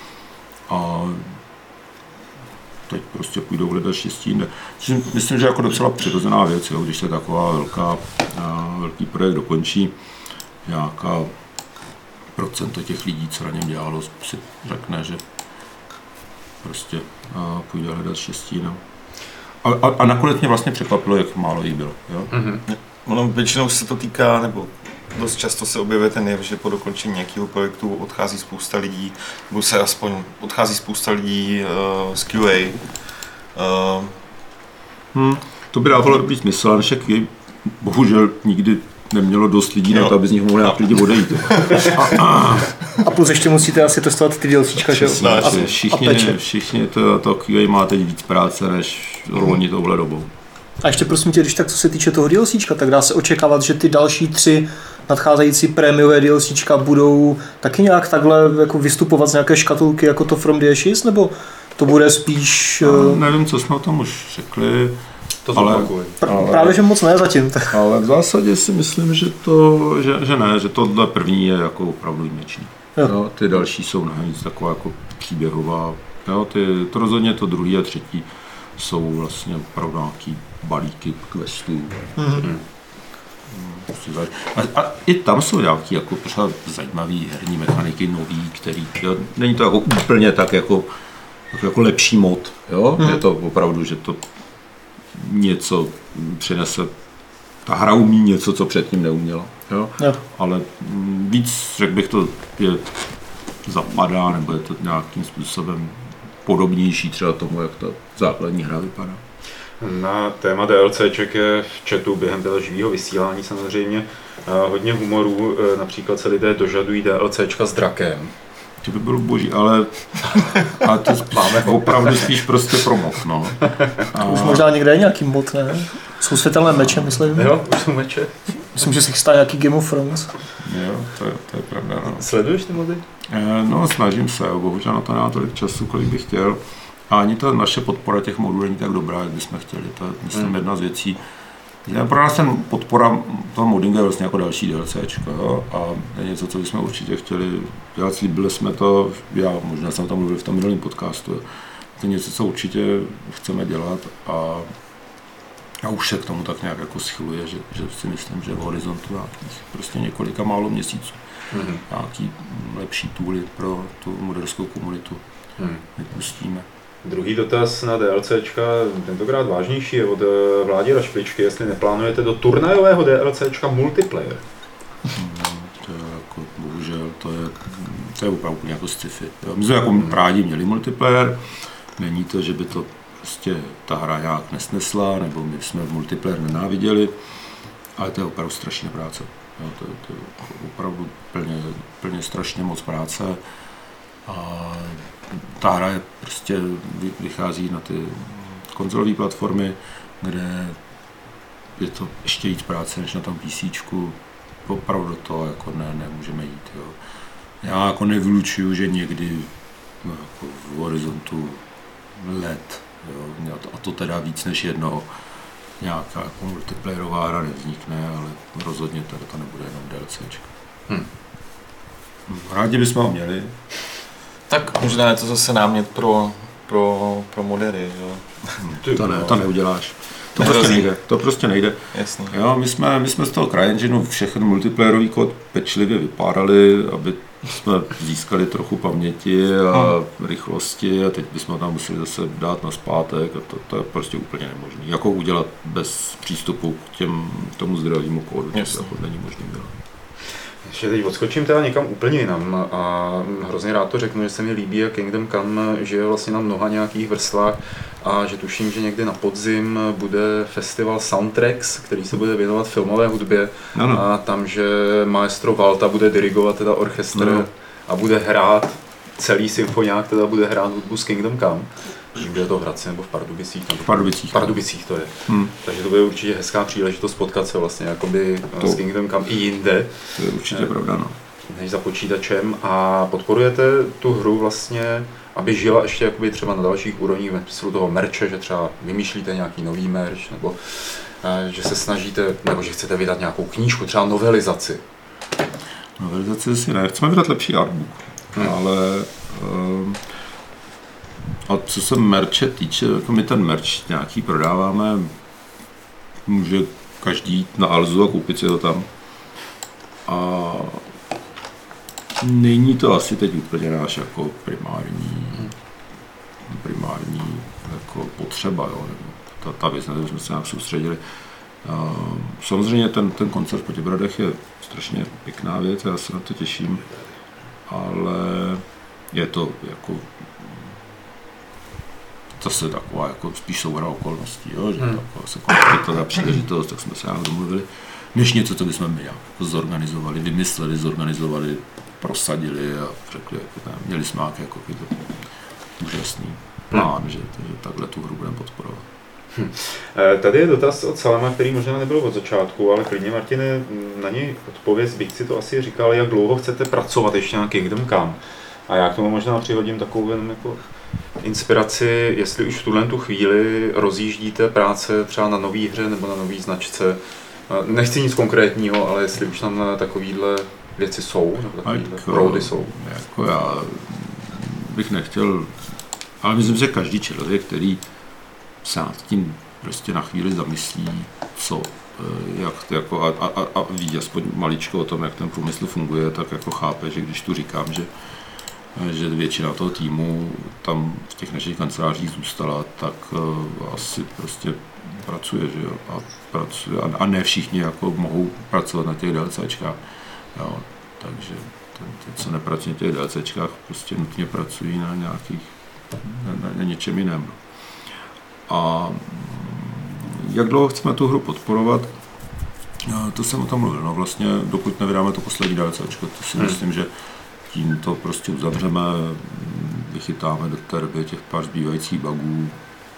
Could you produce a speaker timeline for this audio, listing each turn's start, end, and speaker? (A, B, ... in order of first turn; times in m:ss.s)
0:00.7-0:01.3 A
0:02.9-0:09.9 A
0:10.7-0:11.3 A
0:12.4-0:15.2 A
0:16.6-0:18.8 A
0:19.6-0:22.3 A
0:22.3-0:22.6 B
0:22.7-0:32.9 C
0:33.5-0:34.1 C
0:35.1-0:42.8 A
0:41.5-0:42.0 C
0:43.0-0:46.4 D
0:44.8-0:50.3 A
0:45.1-0:45.6 C
0:50.8-1:03.2 D
1:02.8-1:05.0 A
1:05.4-1:06.2 B
1:05.5-1:06.8 A
1:06.2-1:07.8 D
1:07.7-1:18.3 A
1:18.8-1:22.5 A
1:22.2-1:22.5 D
1:23.5-1:30.9 A
1:31.5-1:34.2 A
1:35.1-1:36.9 A
1:37.7-1:43.0 A
1:43.6-1:49.2 A
1:49.8-1:58.3 B
1:58.8-2:04.7 A
2:01.3-2:02.3 B
2:04.1-2:07.5 D
2:06.7-2:07.1 A
2:07.3-2:08.3 B
2:08.7-2:10.3 D
2:10.6-2:12.3 A
2:12.1-2:13.0 B
2:13.3-2:21.2 A
2:21.8-2:31.4 A
2:32.0-2:34.7 A
2:35.8-2:41.2 A
2:41.5-2:41.8 B
2:41.9-2:45.2 A
2:45.6-2:45.8 B
2:46.0-2:46.7 A
2:47.0-2:54.4 B
2:55.1-3:01.4 A
3:02.0-3:07.2 A
3:08.0-3:13.4 A
3:14.3-3:20.8 A
3:21.8-3:27.0 A
3:27.6-3:29.5 A
3:30.0-3:31.6 A
3:32.2-3:35.1 A
3:35.8-3:40.5 A
3:42.3-3:43.5 A
3:44.6-3:48.6 C
3:48.6-3:51.8 A
3:50.4-3:50.9 C
3:51.9-3:52.3 C
3:52.3-4:09.7 A
4:10.6-4:40.7 B
4:23.7-4:24.0 A
4:27.1-4:27.5 A
4:33.8-4:34.6 A
4:35.3-4:35.5 A
4:40.2-4:41.2 A
4:41.5-4:54.8 B
4:56.0-5:00.0 A
5:01.5-5:05.1 A
5:06.3-5:08.9 A
5:10.1-5:10.9 A
5:12.2-5:15.5 A
5:16.5-5:21.0 A
5:21.6-5:26.8 A
5:27.7-5:30.6 A
5:32.4-5:45.1 A
5:45.8-5:48.9 A
5:49.4-6:00.6 B
6:01.2-6:12.7 B
6:11.6-6:15.5 A
6:16.2-6:17.8 A
6:18.6-6:27.9 A
6:28.8-6:39.8 A
6:40.4-6:45.5 A
6:46.0-6:47.4 A
6:48.5-6:51.9 A
6:52.8-6:56.9 A
6:57.5-7:02.6 A